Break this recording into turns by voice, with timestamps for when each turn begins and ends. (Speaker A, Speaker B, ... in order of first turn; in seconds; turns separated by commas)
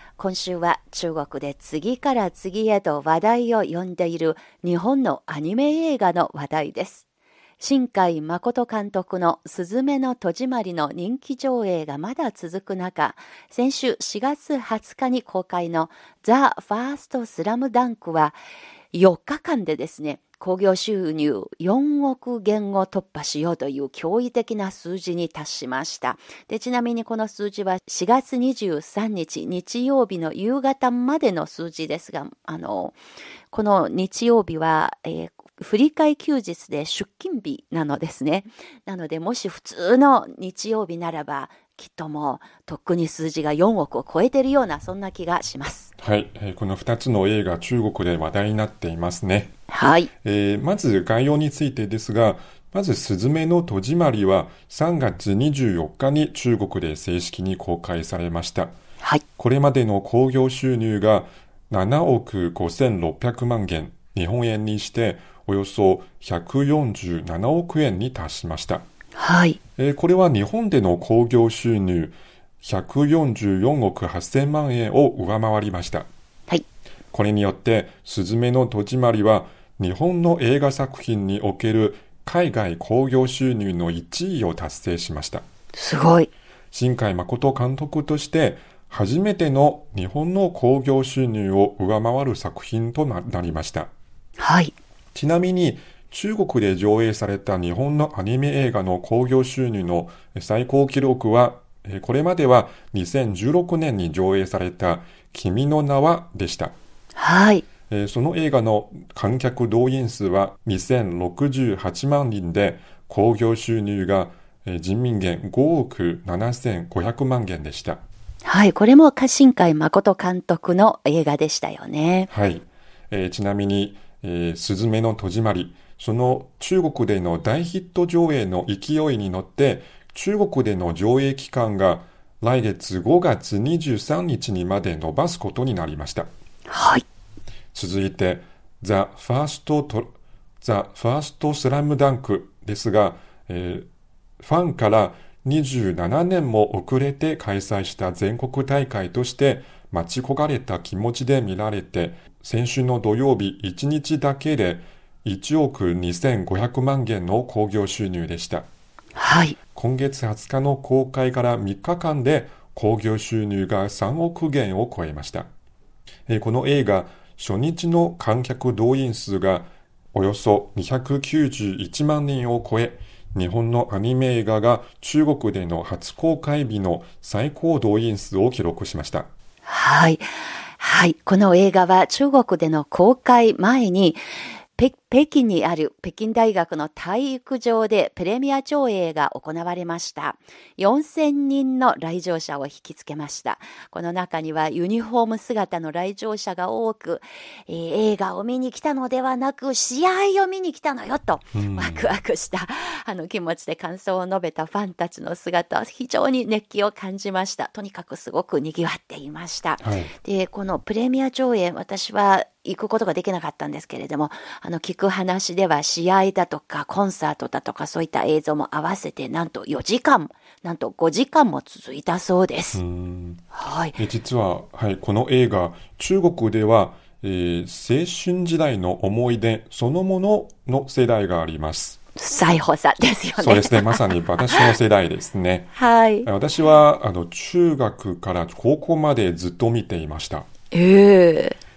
Speaker A: 0.2-7.0, Speaker A: 7.6-18.4, Speaker A: 18.9-33.0, Speaker A: 33.5-45.9, Speaker B: 46.0-49.5, Speaker A: 49.7-50.1, Speaker B: 50.2-58.7, Speaker B: 59.4-68.8, Speaker A: 69.2-69.6, Speaker B: 69.8-76.1, Speaker B: 77.1-85.4, Speaker A: 85.7-86.3, Speaker B: 86.7-93.9, Speaker A: 94.4-94.7, Speaker B: 95.1-106.7, Speaker A: 107.2-107.7, Speaker B: 107.9-118.0, Speaker A: 118.4-122.3, Speaker B: 122.3-136.3, Speaker A: 136.7-137.0, Speaker B: 137.7-143.9, Speaker B: 144.4-158.7, Speaker A: 159.2-159.6, Speaker B: 159.7-165.5, Speaker B: 166.3-179.3, Speaker A: 179.7-184.2, Speaker A: 184.8-222.8, Speaker B: 201.5-202.1, Speaker B: 209.8-210.1, Speaker B: 222.7-232.0, Speaker A: 223.5-224.0, Speaker A: 232.2-234.7, Speaker B: 233.4-235.7, Speaker A: 235.7-236.3, Speaker B: 236.2-240.5, Speaker A: 240.7-241.6